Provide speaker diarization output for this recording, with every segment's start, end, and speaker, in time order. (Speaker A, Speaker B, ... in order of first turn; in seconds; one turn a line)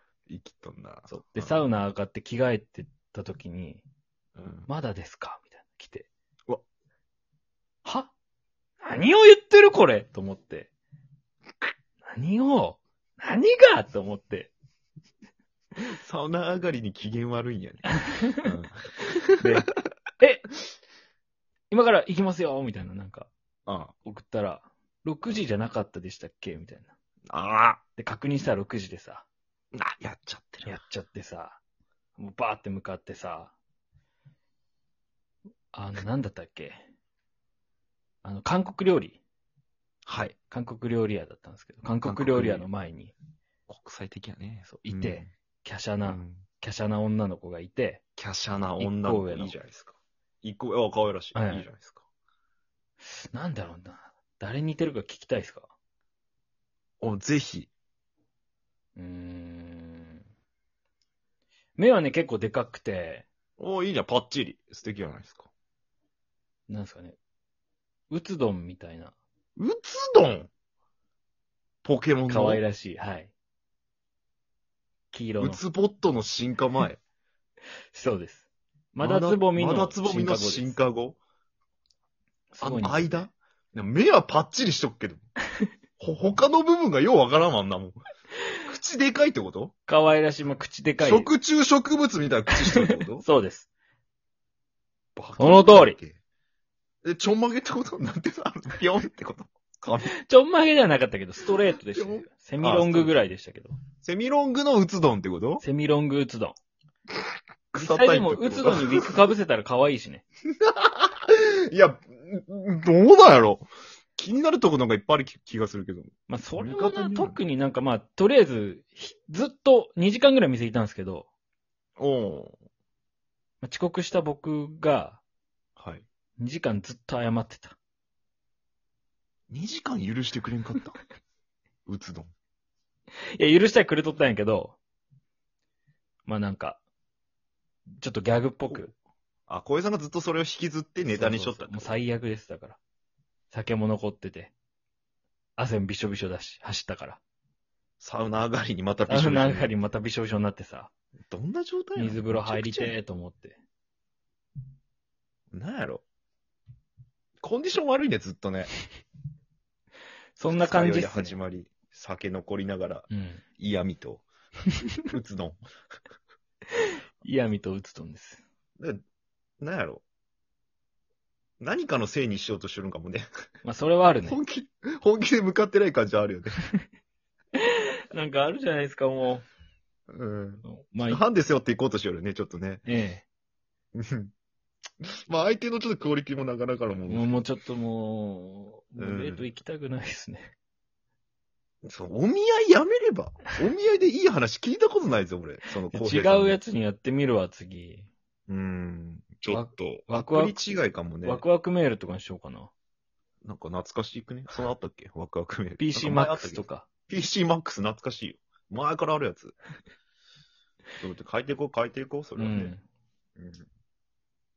Speaker A: 0.3-1.7
Speaker B: 1.1-3.8
Speaker A: 4.4-4.7
Speaker B: 4.7-6.1
Speaker B: 7.8-8.1
Speaker B: 8.8-10.7
Speaker B: 12.1-14.5
Speaker A: 16.0-18.8
Speaker A: 19.3-19.7
Speaker B: 19.4-19.7
Speaker B: 20.2-20.5
Speaker B: 21.7-23.3
Speaker A: 23.7-23.9
Speaker B: 24.1-26.9
Speaker A: 27.3-27.8
Speaker B: 28.0-29.2
Speaker A: 29.7-30.8
Speaker B: 30.6-31.6
Speaker B: 32.2-33.5
Speaker B: 35.7-36.8
Speaker B: 38.2-39.2
Speaker A: 40.1-40.4
Speaker B: 40.5-43.1
Speaker A: 42.0-42.7
Speaker A: 43.7-45.3
Speaker B: 44.7-48.0
Speaker A: 46.0-46.4
Speaker A: 48.2-52.0
Speaker B: 48.8-49.6
Speaker B: 51.4-51.7
Speaker B: 53.2-55.7
Speaker A: 57.0-57.7
Speaker B: 59.0-60.2
Speaker B: 61.8-63.3
Speaker A: 63.6-65.5
Speaker B: 66.7-67.2
Speaker B: 68.1-69.2
Speaker A: 69.6-70.5
Speaker A: 71.8-72.6
Speaker B: 72.3-73.3
Speaker B: 75.1-75.6
Speaker A: 75.4-77.0
Speaker B: 77.9-80.8
Speaker A: 79.0-81.2
Speaker B: 82.5-83.2
Speaker A: 82.6-85.3
Speaker A: 86.0-88.0
Speaker A: 88.6-89.7
Speaker B: 89.9-91.3
Speaker A: 91.0-93.2
Speaker B: 92.5-93.7
Speaker A: 95.2-96.2
Speaker B: 95.4-96.0
Speaker A: 97.0-100.1
Speaker B: 100.2-103.8
Speaker A: 101.9-103.2
Speaker A: 104.0-105.6
Speaker B: 105.6-106.6
Speaker A: 107.7-109.3
Speaker B: 107.8-110.2
Speaker A: 110.6-117.4
Speaker B: 116.3-121.3
Speaker A: 122.0-122.6
Speaker B: 123.6-125.2
Speaker A: 125.8-126.0
Speaker B: 126.4-127.8
Speaker A: 129.5-131.0
Speaker A: 131.9-132.3
Speaker B: 133.4-134.8
Speaker B: 136.3-136.8
Speaker B: 138.0-138.9
Speaker A: 139.5-141.9
Speaker B: 141.1-142.8
Speaker B: 143.5-144.5
Speaker B: 145.6-147.2
Speaker A: 148.0-149.7
Speaker B: 149.1-150.9
Speaker A: 151.3-152.9
Speaker B: 152.0-153.6
Speaker A: 155.5-156.0
Speaker A: 157.4-158.7
Speaker B: 160.4-161.4
Speaker A: 160.5-164.2
Speaker B: 163.1-163.4
Speaker A: 165.1-165.6
Speaker B: 167.2-168.4
Speaker A: 169.6-170.0
Speaker A: 171.6-173.3
Speaker B: 173.6-174.4
Speaker A: 174.3-176.6
Speaker B: 177.6-179.4
Speaker A: 180.1-182.8
Speaker B: 180.7-181.2
Speaker B: 182.9-183.2
Speaker A: 183.9-184.3
Speaker A: 185.0-187.5
Speaker B: 187.1-190.5
Speaker A: 189.0-189.5
Speaker A: 191.8-196.6
Speaker B: 195.9-198.1
Speaker A: 198.5-201.4
Speaker B: 199.5-200.6
Speaker B: 201.2-202.7
Speaker A: 203.4-209.6
Speaker B: 205.8-206.9
Speaker A: 211.0-212.8
Speaker B: 212.4-212.8
Speaker A: 213.4-213.7